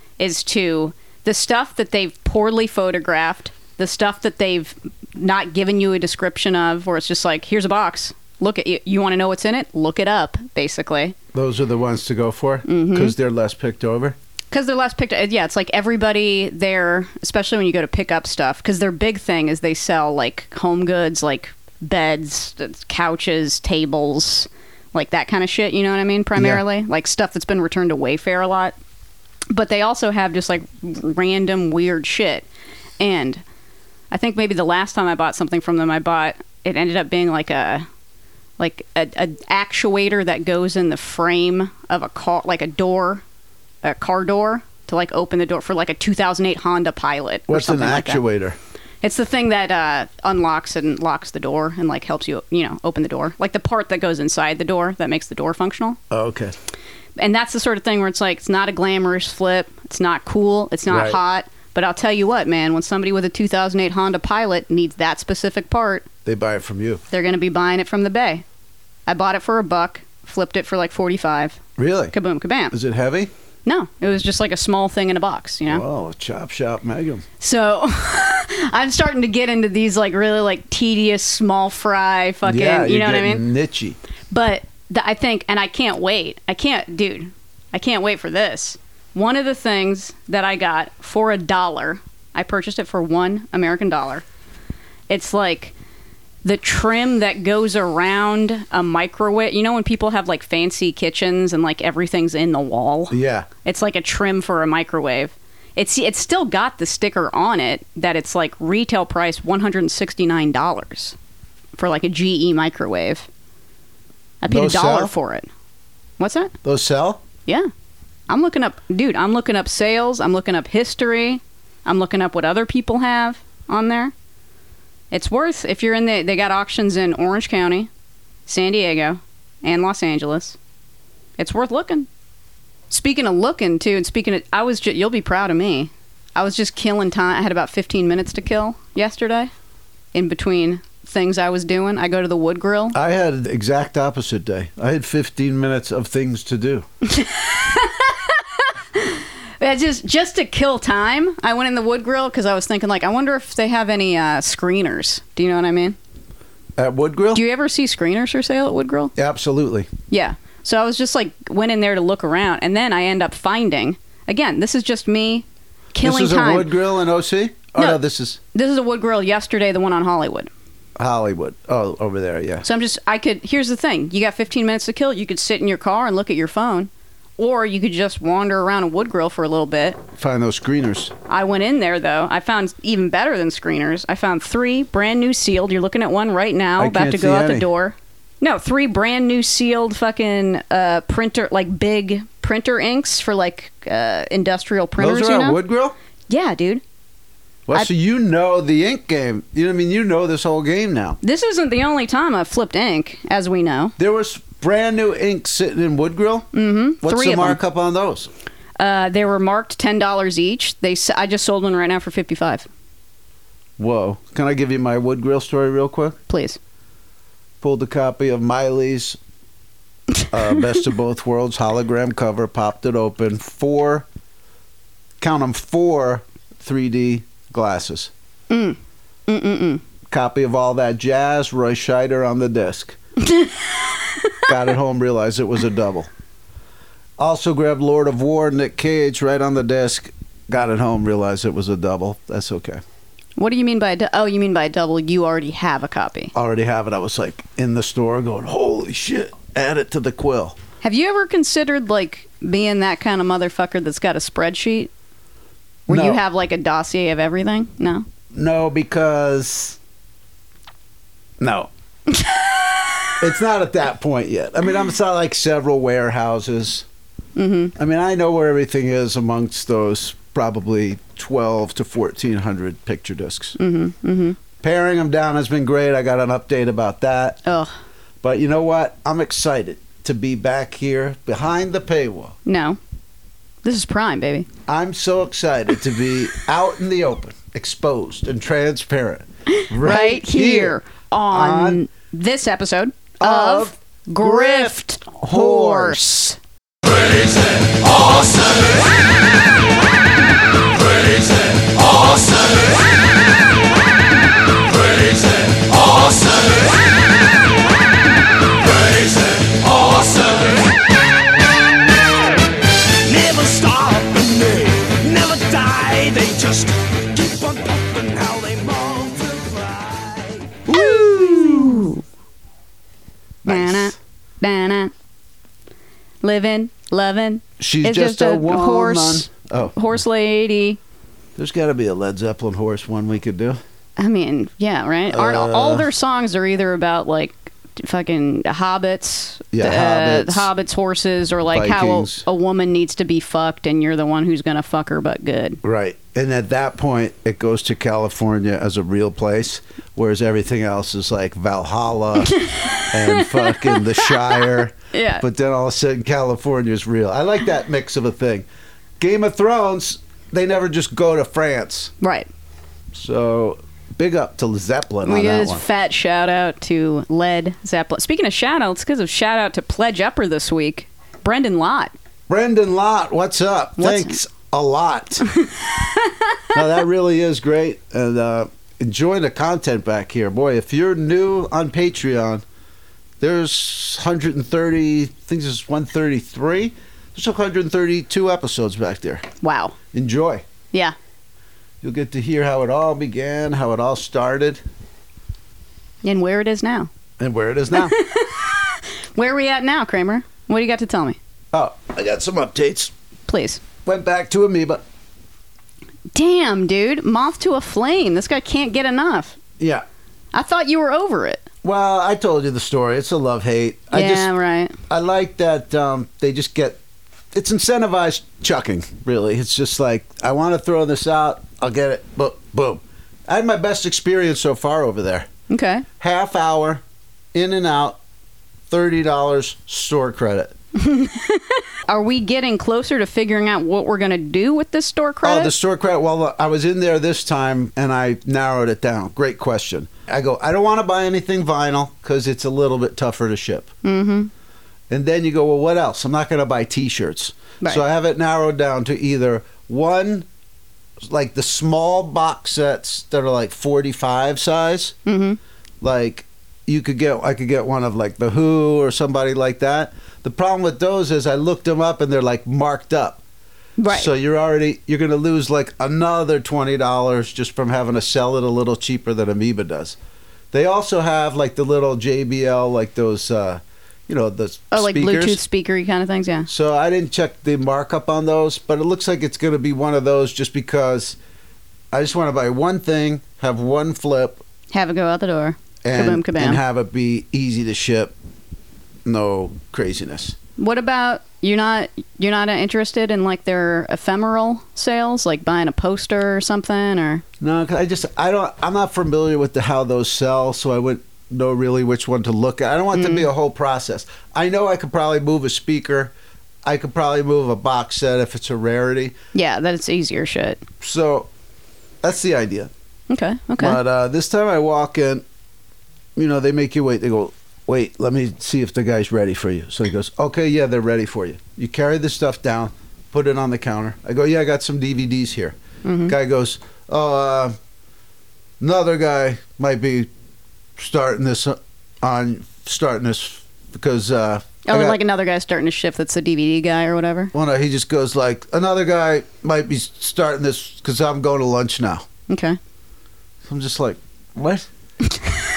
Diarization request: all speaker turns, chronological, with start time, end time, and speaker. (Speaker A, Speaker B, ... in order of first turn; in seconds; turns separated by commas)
Speaker A: 0.2-11.2, Speaker B: 11.3-14.2, Speaker A: 12.7-13.2, Speaker A: 14.5-28.8, Speaker B: 26.4-26.6, Speaker A: 29.5-32.5, Speaker A: 33.0-33.4, Speaker A: 34.1-37.9, Speaker A: 38.6-43.2, Speaker A: 43.8-48.2, Speaker B: 47.5-48.6, Speaker A: 49.0-56.0, Speaker B: 56.1-56.5, Speaker A: 57.2-66.1, Speaker B: 60.9-61.2, Speaker B: 66.2-67.0, Speaker A: 67.1-68.4, Speaker A: 69.1-71.6, Speaker B: 71.8-72.2, Speaker A: 72.1-72.7, Speaker B: 72.7-73.3, Speaker A: 73.7-75.8, Speaker B: 75.7-77.2, Speaker A: 77.4-83.4, Speaker B: 82.5-84.0, Speaker A: 84.3-94.2, Speaker A: 95.1-95.8, Speaker A: 96.4-111.2, Speaker B: 103.1-103.5, Speaker A: 111.8-113.3, Speaker A: 114.4-115.5, Speaker B: 114.5-115.1, Speaker A: 116.2-116.5, Speaker B: 116.6-117.2, Speaker A: 118.3-124.1, Speaker A: 125.1-127.9, Speaker A: 128.5-130.6, Speaker A: 131.4-132.1, Speaker A: 132.9-139.5, Speaker A: 140.1-143.0, Speaker B: 142.9-146.8, Speaker A: 147.0-156.0, Speaker B: 156.8-157.4, Speaker A: 157.3-159.1, Speaker B: 159.2-159.9, Speaker A: 160.1-166.7, Speaker B: 166.0-168.4, Speaker A: 168.5-170.5, Speaker B: 171.0-172.7, Speaker A: 172.6-180.0, Speaker B: 180.2-181.1, Speaker A: 181.3-195.6, Speaker B: 186.8-187.7, Speaker B: 195.0-195.9, Speaker A: 196.3-196.8, Speaker B: 197.7-201.2, Speaker A: 201.2-203.9, Speaker B: 204.0-206.5, Speaker A: 206.5-207.6, Speaker B: 207.0-208.3, Speaker A: 208.8-212.7, Speaker B: 213.8-216.2, Speaker A: 216.3-216.6, Speaker B: 217.6-219.2, Speaker B: 220.3-224.1, Speaker B: 225.2-228.1, Speaker A: 228.5-229.8, Speaker B: 230.1-233.0, Speaker A: 233.2-234.5, Speaker B: 234.5-236.1, Speaker B: 237.2-242.8, Speaker A: 243.4-246.3, Speaker B: 246.3-250.6, Speaker A: 250.8-254.9, Speaker B: 255.9-256.2, Speaker A: 255.9-258.1, Speaker B: 258.3-259.8, Speaker B: 261.4-261.7, Speaker A: 262.1-263.2, Speaker B: 263.2-266.9, Speaker A: 267.4-267.7, Speaker B: 267.8-273.6, Speaker A: 273.6-274.4, Speaker B: 274.6-277.4, Speaker A: 277.5-277.7, Speaker B: 278.2-282.4, Speaker A: 282.4-282.8, Speaker A: 283.6-284.5, Speaker B: 284.7-290.8, Speaker A: 289.5-296.4, Speaker B: 291.3-291.8, Speaker B: 293.2-296.1, Speaker C: 296.9-298.9, Speaker C: 300.8-302.8, Speaker C: 304.7-306.8, Speaker C: 308.6-310.7, Speaker C: 312.9-320.6, Speaker B: 320.7-321.9, Speaker A: 320.7-322.0, Speaker B: 323.4-323.9, Speaker A: 323.4-324.9, Speaker A: 326.2-330.8, Speaker B: 327.6-329.8, Speaker B: 331.4-333.6, Speaker A: 334.0-345.6, Speaker B: 335.1-335.9, Speaker B: 339.5-340.5, Speaker B: 341.5-342.2, Speaker B: 345.6-358.5, Speaker A: 352.2-355.2, Speaker B: 359.0-361.9, Speaker A: 362.0-362.3, Speaker B: 362.9-365.6, Speaker A: 365.1-371.9, Speaker B: 372.3-375.3, Speaker A: 373.8-374.2, Speaker A: 375.3-376.6, Speaker B: 376.5-382.4, Speaker B: 383.2-389.2, Speaker A: 389.4-389.8, Speaker B: 389.9-390.4, Speaker B: 391.8-394.6, Speaker A: 396.0-396.9, Speaker B: 397.2-398.0, Speaker A: 397.7-401.2, Speaker B: 401.5-402.9, Speaker A: 403.3-403.6, Speaker B: 403.8-404.8, Speaker A: 406.1-409.4, Speaker B: 409.6-409.9, Speaker A: 410.3-411.5, Speaker B: 411.6-414.3, Speaker A: 413.9-414.8, Speaker B: 414.9-416.8, Speaker B: 417.3-425.3, Speaker A: 425.5-425.9, Speaker B: 426.0-426.8, Speaker B: 427.3-428.0, Speaker B: 428.7-430.6, Speaker A: 430.8-435.5, Speaker B: 435.2-443.7, Speaker A: 443.8-444.3, Speaker B: 444.9-450.3, Speaker B: 451.1-455.0, Speaker A: 455.1-455.4, Speaker B: 455.8-463.2, Speaker A: 463.8-464.1, Speaker B: 463.9-470.0, Speaker B: 470.5-475.4, Speaker A: 474.7-476.5, Speaker B: 476.5-481.2, Speaker B: 481.9-484.4, Speaker A: 484.7-486.6, Speaker B: 485.8-488.1, Speaker B: 489.1-490.4, Speaker A: 490.6-497.2, Speaker B: 497.4-506.1, Speaker A: 502.9-503.3, Speaker B: 506.6-509.1, Speaker A: 509.3-510.6, Speaker B: 510.8-511.3, Speaker B: 512.0-512.7, Speaker A: 513.1-513.8, Speaker B: 513.6-515.2, Speaker B: 516.2-527.5, Speaker A: 525.8-526.1, Speaker B: 528.6-530.1, Speaker B: 530.8-535.0, Speaker A: 534.7-537.3, Speaker B: 537.3-542.0, Speaker A: 542.3-542.6, Speaker B: 543.5-544.7